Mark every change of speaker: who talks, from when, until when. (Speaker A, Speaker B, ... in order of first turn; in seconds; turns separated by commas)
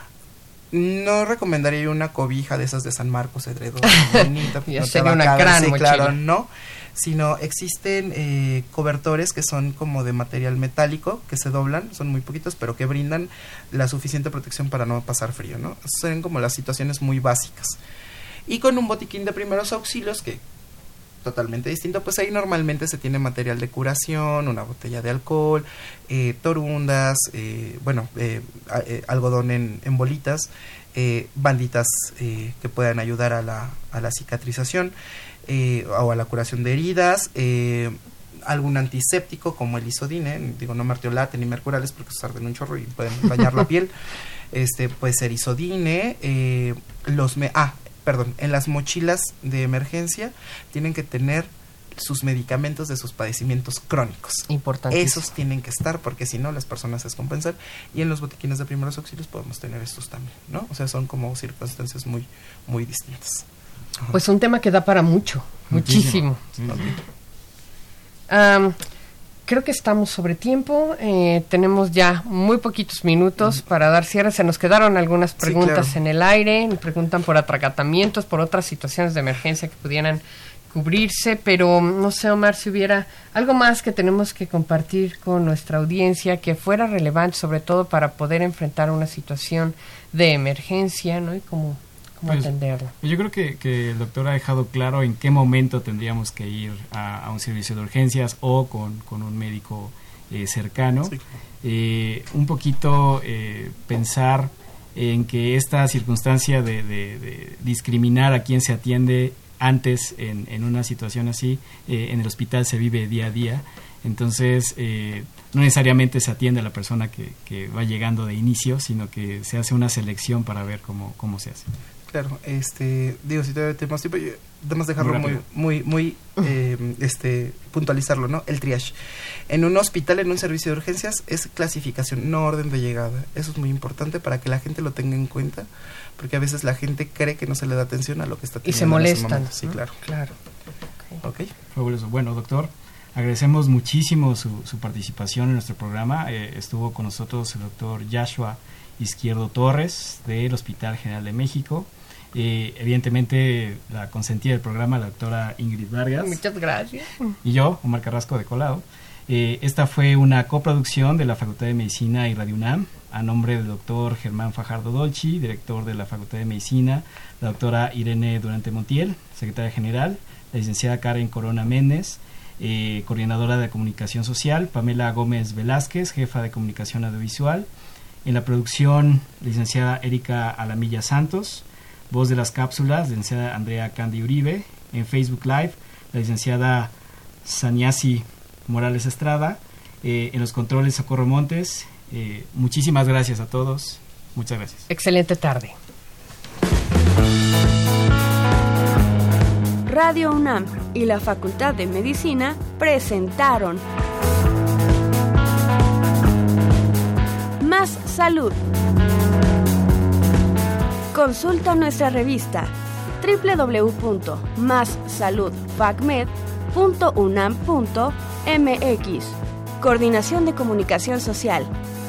Speaker A: 0.7-17.8, Speaker B: 3.9-6.2, Speaker A: 18.5-20.4, Speaker A: 21.2-34.9, Speaker A: 35.5-43.9, Speaker A: 44.5-63.5, Speaker B: 54.5-55.3, Speaker B: 64.1-66.4, Speaker C: 65.7-66.9, Speaker A: 66.7-66.9, Speaker B: 68.3-68.8, Speaker B: 69.5-92.9, Speaker A: 75.4-76.0, Speaker C: 92.3-121.7, Speaker A: 122.1-128.9, Speaker C: 125.0-125.4, Speaker A: 129.5-135.7, Speaker A: 136.2-140.0, Speaker B: 138.6-140.3, Speaker A: 141.2-141.5, Speaker C: 141.7-156.4, Speaker B: 156.2-157.3, Speaker C: 157.4-177.7, Speaker C: 178.2-186.9, Speaker C: 187.4-194.9, Speaker B: 194.9-195.8, Speaker D: 199.9-203.8, Speaker D: 207.6-208.6, Speaker D: 211.1-221.7